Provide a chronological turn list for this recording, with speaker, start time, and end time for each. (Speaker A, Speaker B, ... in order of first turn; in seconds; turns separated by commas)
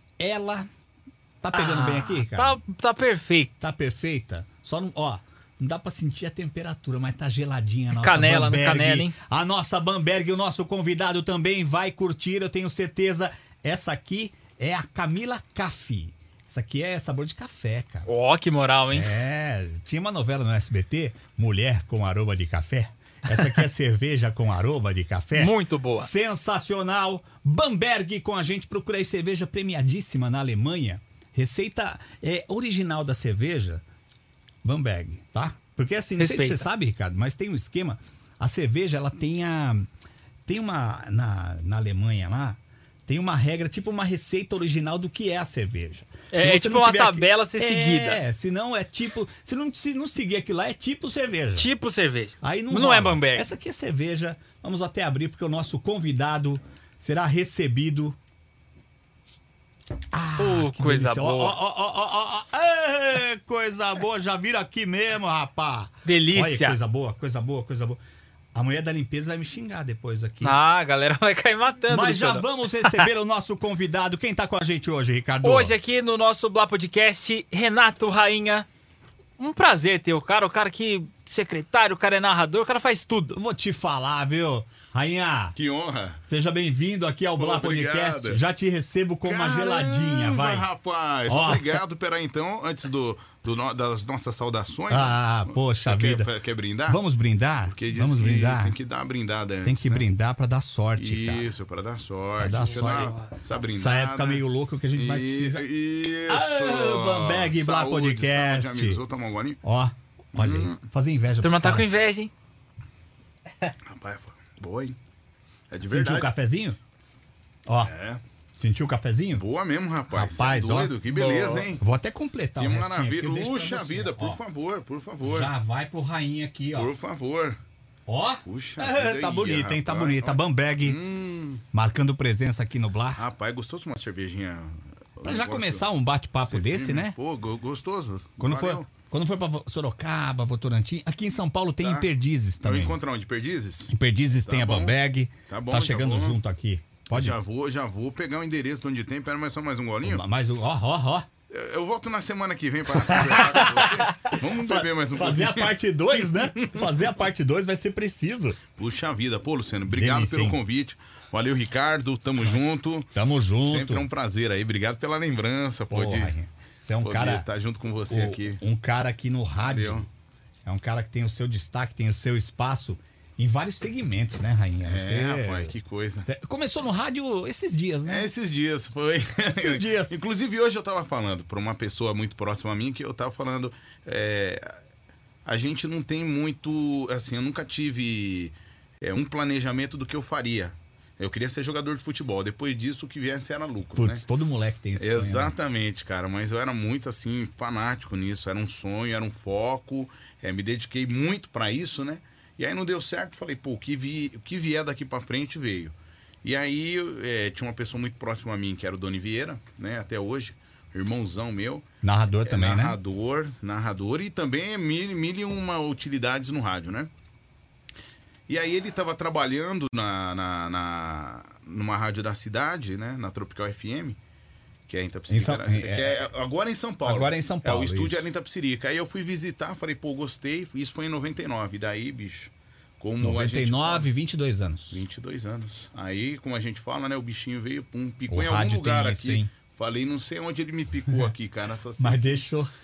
Speaker A: 0.2-0.7, Speaker A: 1.4-2.6, Speaker B: 1.5-3.5, Speaker A: 3.6-18.1, Speaker B: 8.0-9.2, Speaker B: 18.1-19.1, Speaker A: 18.9-33.8, Speaker B: 25.4-26.1, Speaker A: 34.6-39.9, Speaker B: 36.2-36.7, Speaker A: 40.5-51.7, Speaker B: 46.3-48.2, Speaker B: 51.6-53.5, Speaker A: 52.4-58.2, Speaker A: 60.1-68.0, Speaker B: 60.4-61.6, Speaker B: 66.0-66.8, Speaker A: 68.5-70.6, Speaker B: 70.4-73.1, Speaker A: 71.9-75.8, Speaker B: 75.4-78.7, Speaker B: 79.4-83.4, Speaker A: 83.3-85.5, Speaker C: 85.5-86.2, Speaker A: 86.3-90.7, Speaker C: 87.4-88.4, Speaker C: 89.2-97.0, Speaker A: 91.3-91.8, Speaker A: 94.9-96.3, Speaker A: 96.9-98.8, Speaker C: 97.7-100.1, Speaker A: 99.6-101.5, Speaker C: 101.0-109.6, Speaker A: 102.4-103.2, Speaker B: 102.6-103.3, Speaker A: 103.7-105.7, Speaker A: 106.3-109.0, Speaker A: 109.6-111.9, Speaker C: 110.3-110.8, Speaker B: 111.4-112.3, Speaker C: 113.9-115.0, Speaker C: 115.7-116.3, Speaker A: 115.8-116.8, Speaker A: 117.7-117.9, Speaker C: 117.8-118.2, Speaker A: 118.6-119.4, Speaker C: 119.4-121.8, Speaker A: 120.1-124.4, Speaker B: 121.2-121.7, Speaker C: 122.6-125.5, Speaker A: 125.2-126.9, Speaker C: 126.7-127.6, Speaker A: 128.1-131.0, Speaker C: 128.4-131.6, Speaker A: 131.7-133.2, Speaker C: 133.2-135.8, Speaker A: 135.2-137.2, Speaker C: 136.4-138.9, Speaker A: 138.4-143.0, Speaker C: 141.8-142.1, Speaker C: 142.6-144.9, Speaker A: 143.9-147.4, Speaker C: 145.5-146.4, Speaker C: 147.1-150.2, Speaker A: 150.0-151.3, Speaker C: 151.5-157.1, Speaker A: 152.9-158.6, Speaker C: 158.7-166.4, Speaker A: 159.9-160.6, Speaker A: 162.4-164.1, Speaker A: 165.9-167.5, Speaker C: 167.0-168.6, Speaker A: 168.1-170.1, Speaker C: 169.6-170.1, Speaker A: 170.7-175.7, Speaker C: 174.8-176.3, Speaker A: 176.2-178.3, Speaker C: 178.1-184.8, Speaker A: 179.5-180.2, Speaker C: 185.4-194.2, Speaker A: 194.0-195.5, Speaker C: 195.0-211.9, Speaker A: 212.0-213.0, Speaker C: 212.4-217.1, Speaker C: 218.5-224.2, Speaker C: 224.9-234.1, Speaker A: 225.3-226.2, Speaker A: 227.1-228.3, Speaker A: 233.2-235.0, Speaker C: 234.9-242.4, Speaker A: 238.3-239.5, Speaker A: 242.0-242.7